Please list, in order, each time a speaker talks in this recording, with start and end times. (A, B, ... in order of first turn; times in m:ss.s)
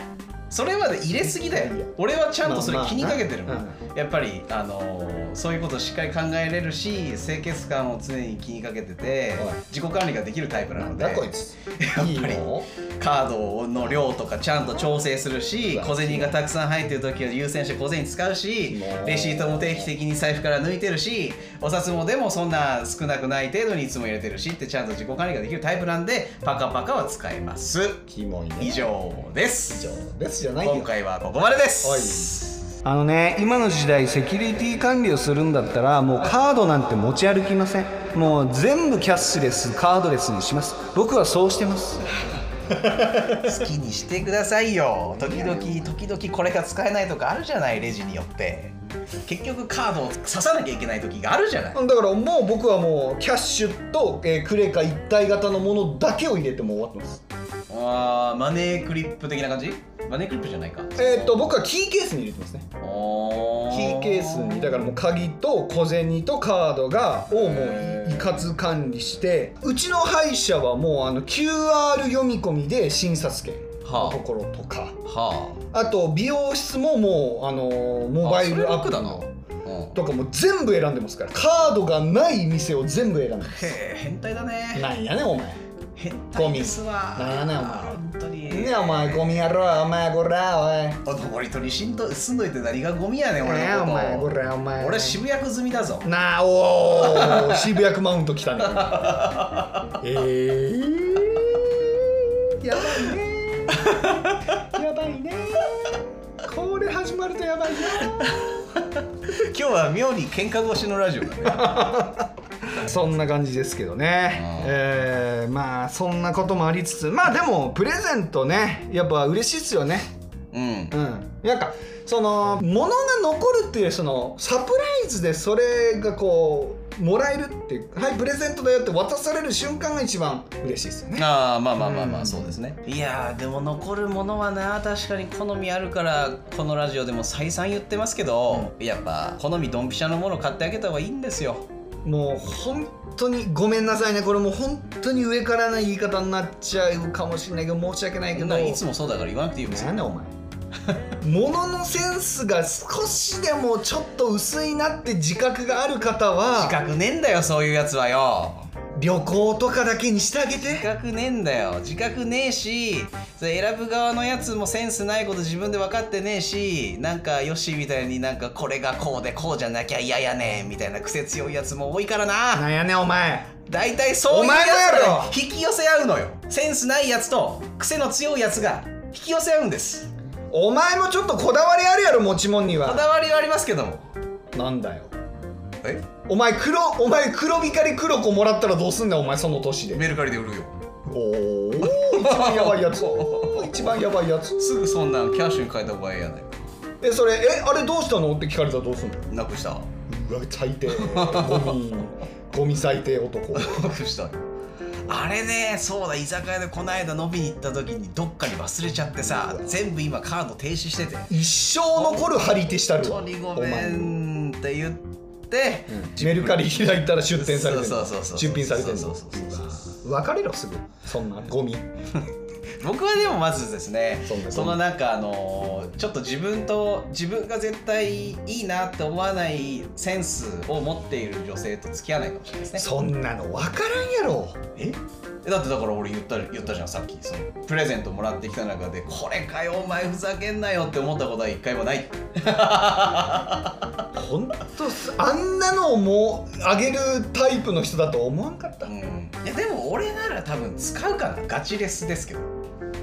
0:00.5-0:28.0 A
0:01.3-0:03.8 B
0:09.4-0:09.6 B
0:10.8-0:12.7 B
0:15.6-0:16.4 B
0:18.7-0:19.9 B
0:28.1-0:28.8 B
0:28.6-0:30.0 A
0:29.7-0:30.9 B
0:30.6-0:32.6 A
0:31.8-0:42.1 B
0:42.7-0:43.5 B
0:43.3-0:51.8 A
0:45.2-0:45.9 B
0:51.7-0:57.2 B
0:57.7-1:01.1 A
1:01.0-1:02.7 B
1:02.8-1:04.9 A
1:03.7-1:15.0 B
1:07.3-1:08.4 A
1:13.8-1:14.2 A
1:15.0-1:15.6 A
1:15.7-1:19.3 B
1:18.2-1:20.0 A
1:19.9-1:23.8 B
1:23.4-1:24.9 A
1:24.7-1:25.6 B
1:26.0-1:29.6 A
1:26.3-1:31.0 B
1:31.0-1:36.1 A
1:33.4-1:35.2 B
1:36.0-1:39.3 B
1:36.9-1:37.7 A
1:38.6-1:39.9 A
1:40.0-1:48.6 B
1:43.8-1:44.6 A
1:48.0-1:51.8 A
1:51.4-2:00.1 B
1:54.3-1:54.7 A
2:00.5-2:00.9 A
2:00.9-2:12.6 B
2:11.2-2:21.7 A
2:22.0-2:28.8 B
2:28.3-2:29.9 A
2:29.6-2:30.3 B
2:31.2-2:36.8 B
2:36.5-2:38.7 A
2:39.0-2:40.9 B
2:40.6-2:52.7 A
2:52.5-2:53.6 B
2:53.7-3:00.1 A
2:54.3-2:55.4 B
3:00.5-3:03.0 B
3:02.7-3:04.1 A
3:04.5-3:05.1 B
3:05.8-3:06.1 A
3:06.2-3:10.0 B
3:09.9-3:10.8 A
3:11.0-3:14.8 B
3:11.8-3:16.7 A
3:17.0-3:19.3 B
3:19.3-3:19.9 A
3:20.1-3:23.8 B
3:20.9-3:21.8 A
3:23.5-3:24.4 A
3:25.0-3:31.3 A
3:29.2-3:29.8 B
3:31.3-3:34.2 B
3:31.9-3:32.4 A
3:33.0-3:39.8 A
3:35.9-3:41.9 B
3:42.8-3:52.9 A
3:44.3-3:44.8 B
3:52.8-3:54.6 B
3:54.8-4:03.9 A
4:04.1-4:08.9 B
4:08.8-4:12.5 A